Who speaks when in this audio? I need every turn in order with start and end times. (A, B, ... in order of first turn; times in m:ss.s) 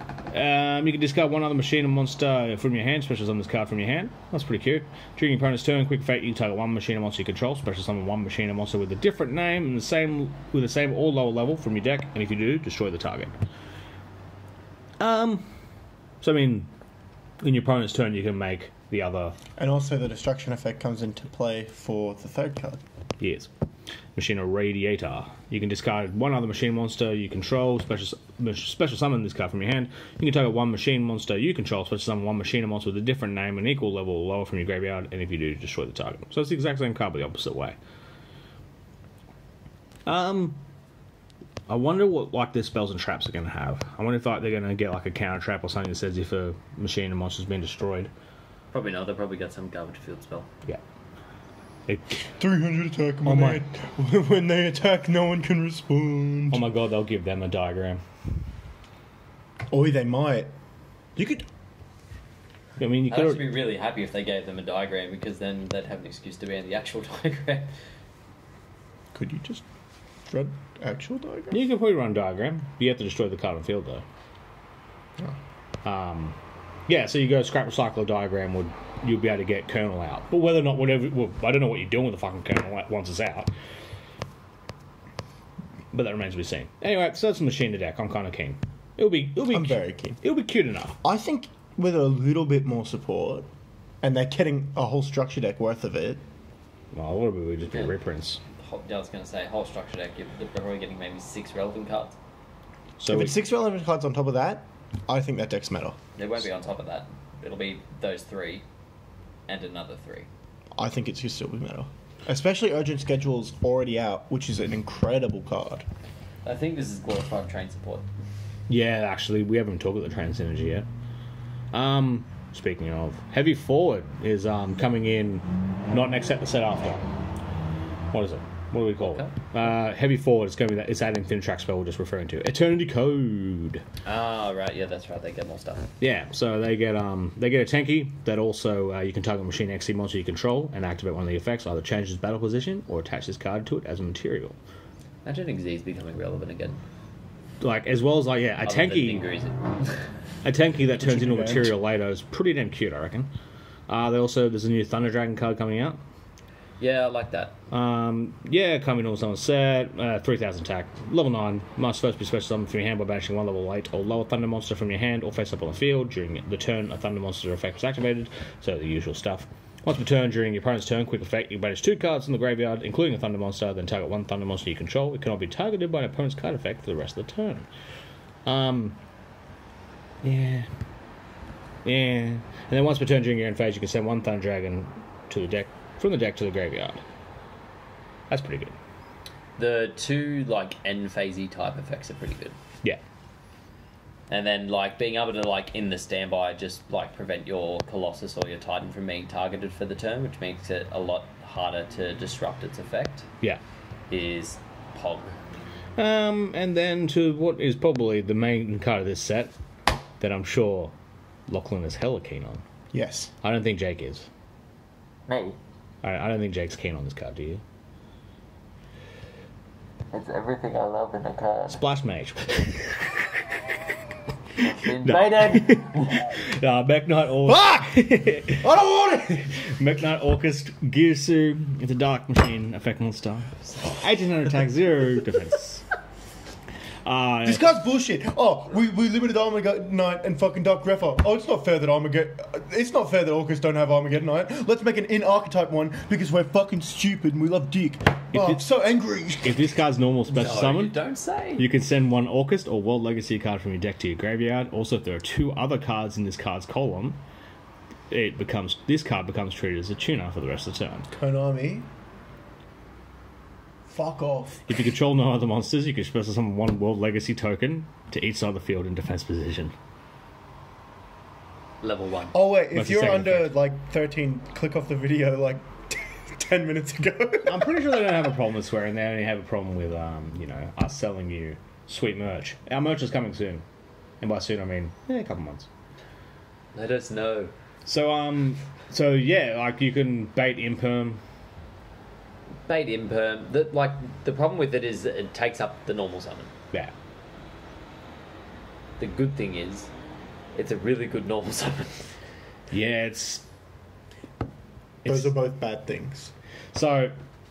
0:00.3-0:13.3 A
0:15.0-0:15.5 A
0:16.2-0:16.7 A
0:17.4-0:19.4 A
0:19.6-0:22.8 B
0:23.2-0:23.5 A
0:24.2-0:37.8 A
0:40.1-0:40.6 A
0:41.7-0:48.1 A
0:48.7-0:50.5 C
0:51.9-0:52.3 A
0:52.4-0:56.6 B
0:53.2-0:53.6 A
0:56.5-0:58.0 A
0:59.7-1:00.5 B
1:01.2-1:01.4 A
1:02.8-1:03.4 A
1:03.1-1:07.7 C
1:09.1-1:09.6 B
1:10.3-1:11.6 B
1:11.5-1:14.0 A
1:15.8-1:16.4 A
1:16.9-1:23.5 A
1:25.9-1:31.0 A
1:29.5-1:30.2 B
1:31.0-1:33.5 B
1:34.0-1:36.2 B
1:36.9-1:38.4 A
1:38.6-1:42.2 C
1:43.0-1:43.4 A
1:43.1-1:46.0 B
1:46.2-1:48.6 C
1:49.5-1:50.3 C
1:50.8-1:55.9 B
1:56.4-1:58.1 C
1:58.7-2:00.9 A
2:01.7-2:07.1 A
2:08.1-2:13.8 A
2:09.0-2:09.3 C
2:14.0-2:15.9 C
2:16.0-2:24.6 A
2:25.2-2:26.8 C
2:27.6-2:29.2 A
2:28.6-2:30.1 C
2:30.4-2:33.3 A
2:31.0-2:31.7 B
2:33.9-2:36.0 A
2:36.8-2:37.6 C
2:37.7-2:57.7 A
2:58.4-2:59.0 A
3:00.2-3:00.7 A
3:01.8-3:07.0 A
3:08.3-3:08.8 A
3:09.6-3:12.6 C
3:14.3-3:23.3 C
3:24.1-3:25.4 C
3:26.0-3:29.5 A
3:30.2-3:30.9 A
3:31.5-3:32.6 A
3:32.9-3:33.3 B
3:33.4-3:34.3 A
3:35.3-3:35.6 C
3:36.0-3:37.6 A
3:40.1-3:41.8 C
3:41.7-3:43.6 A
3:44.6-3:46.3 C
3:45.0-3:55.9 A
3:47.5-3:49.6 B
3:57.0-3:57.7 A
3:57.4-4:09.8 B
4:08.3-4:08.7 A
4:09.4-4:11.0 A
4:10.3-4:11.7 C
4:11.6-4:17.2 A
4:18.1-4:21.1 A
4:21.1-4:21.9 B
4:23.9-4:24.8 B
4:24.7-4:29.7 A
4:31.8-4:32.4 C
4:32.3-4:37.9 B
4:32.7-4:33.6 A
4:37.4-4:43.6 A
4:44.2-4:45.7 A
4:46.8-4:47.5 C
4:47.9-4:51.2 A
4:52.7-4:56.5 C
4:59.0-4:59.9 C
5:00.6-5:02.2 C
5:02.7-5:03.4 A
5:05.0-5:05.3 A
5:05.1-5:06.3 B
5:06.7-5:07.2 A